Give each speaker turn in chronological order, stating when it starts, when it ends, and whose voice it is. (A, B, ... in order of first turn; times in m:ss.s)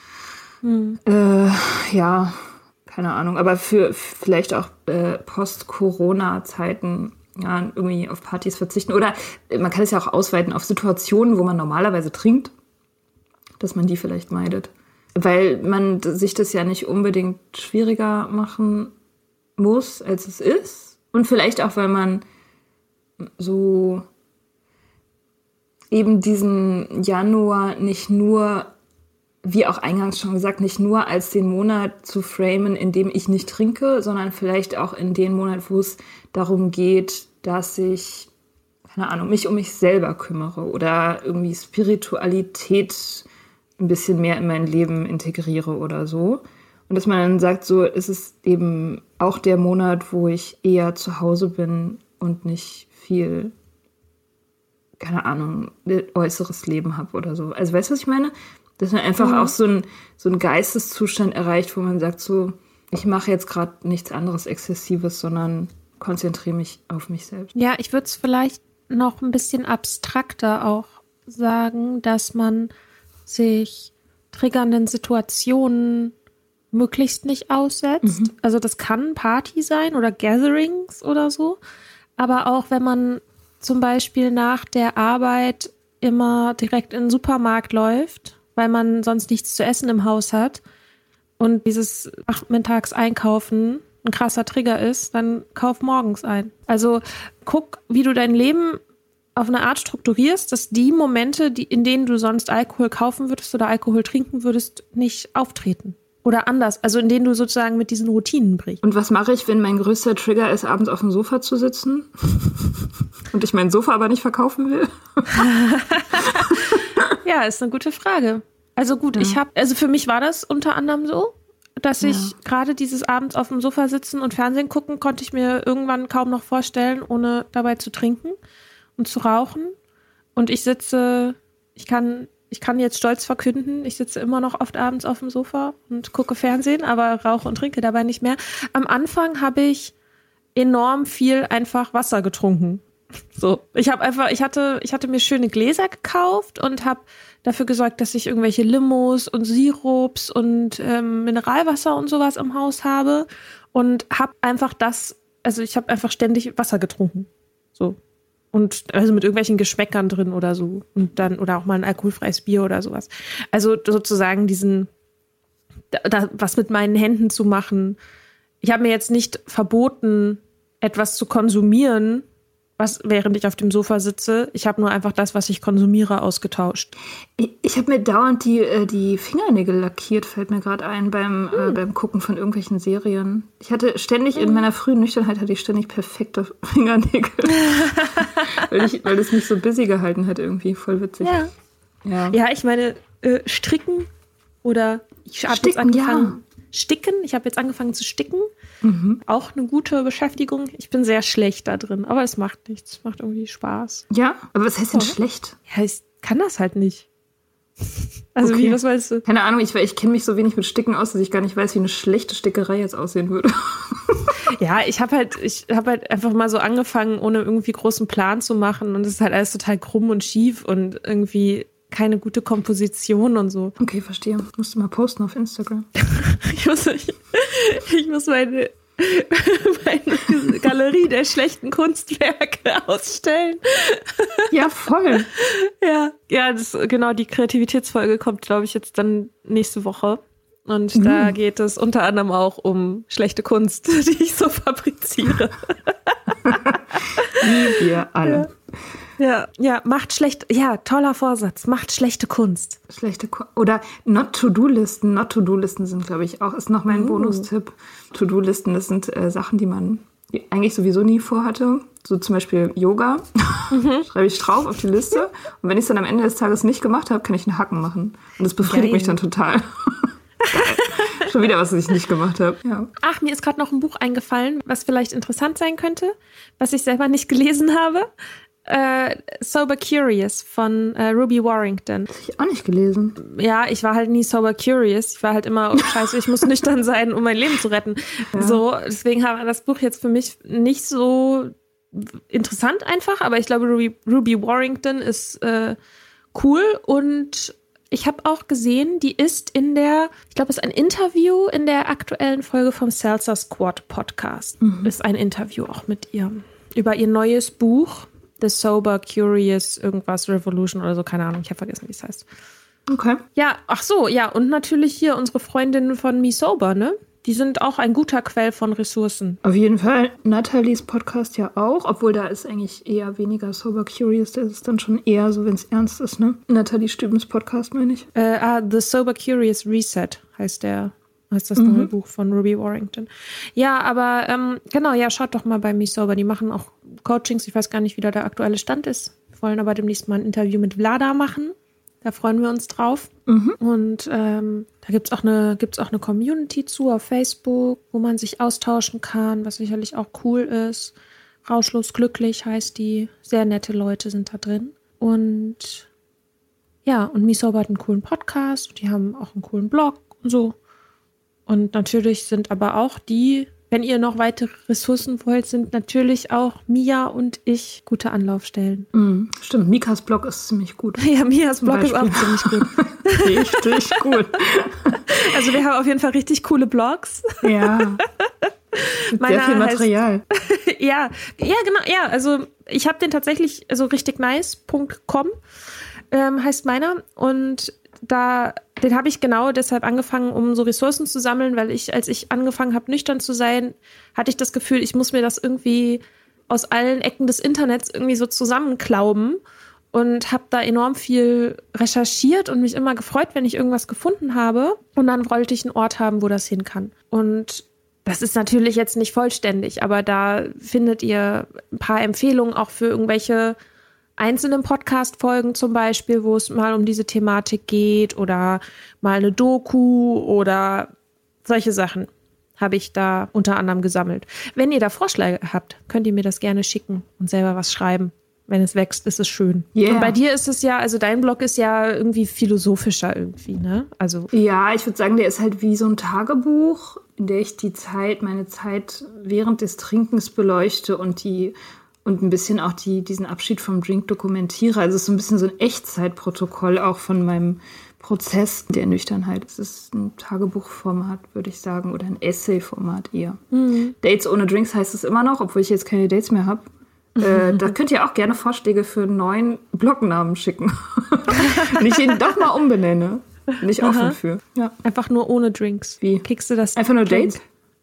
0:00.6-0:01.0 A
0:01.0-0:12.5 B
0:13.6-0:18.9 B
0:19.6-0:22.2 B
0:23.2-0:24.0 B
0:25.9-0:28.7 B
0:29.4-0:38.3 B
0:38.8-0:43.2 B
0:43.8-0:53.5 B
0:55.0-1:07.5 B
0:59.2-0:59.5 A
1:07.5-1:12.7 A
1:13.3-1:16.1 A
1:16.7-1:21.6 A
1:18.0-1:18.3 B
1:22.2-1:30.6 A
1:31.4-1:38.8 A
1:39.4-1:48.8 A
1:48.8-1:55.5 B
1:55.3-2:08.4 A
2:02.0-2:02.3 B
2:09.0-2:09.7 A
2:10.4-2:19.9 A
2:20.5-2:22.8 A
2:23.3-2:38.0 A
2:38.5-2:44.9 A
2:45.9-2:48.0 A
2:48.6-2:52.2 A
2:52.8-2:56.9 A
2:57.4-3:11.4 B
3:04.4-3:04.6 A
3:07.5-3:08.6 A
3:11.2-3:11.5 A
3:12.0-3:12.4 B
3:12.3-3:14.1 A
3:14.6-3:18.5 A
3:15.5-3:16.4 B
3:18.8-3:19.2 B
3:19.2-3:24.0 A
3:24.1-3:25.6 B
3:25.7-3:27.0 A
3:28.3-3:29.2 A
3:28.4-3:34.3 B
3:34.5-3:43.7 A
3:43.8-3:45.9 B
3:46.0-3:54.5 A
3:54.5-3:55.3 B
3:55.4-4:06.2 A
4:00.9-4:01.3 B
4:06.4-4:06.8 B
4:07.0-4:08.5 A
4:07.4-4:08.5 B
4:09.2-4:12.8 A
4:12.9-4:32.9 B
4:16.9-4:17.4 A
4:23.7-4:24.1 A
4:28.6-4:29.2 A
4:30.4-4:31.2 A
4:33.0-4:38.1 A
4:38.6-4:42.1 A
4:42.1-4:43.2 B
4:43.2-4:55.8 A
4:48.3-4:48.6 B
4:56.3-5:12.2 A
5:04.6-5:04.9 B
5:12.9-5:13.2 B
5:13.4-5:19.4 A
5:19.4-5:28.1 B
5:28.1-5:50.9 A
5:31.6-5:31.9 B
5:43.3-5:43.6 B
5:51.4-5:55.9 A
5:56.8-6:00.6 A
6:01.5-6:08.9 A
6:08.9-6:11.0 B
6:11.0-6:14.1 A
6:11.6-6:15.0 B
6:15.1-6:18.0 A
6:17.4-6:18.0 B
6:18.7-6:25.3 A
6:19.1-6:20.2 B
6:26.1-6:39.4 A
6:39.9-6:53.6 A
6:54.2-7:00.9 A
7:01.4-7:14.3 A
7:09.7-7:10.2 B
7:14.3-7:33.4 B
7:33.5-7:33.9 A
7:34.0-7:44.8 B
7:37.2-7:37.7 A
7:41.3-7:42.0 A
7:43.8-7:44.2 A
7:44.8-7:47.4 A
7:46.0-7:47.4 B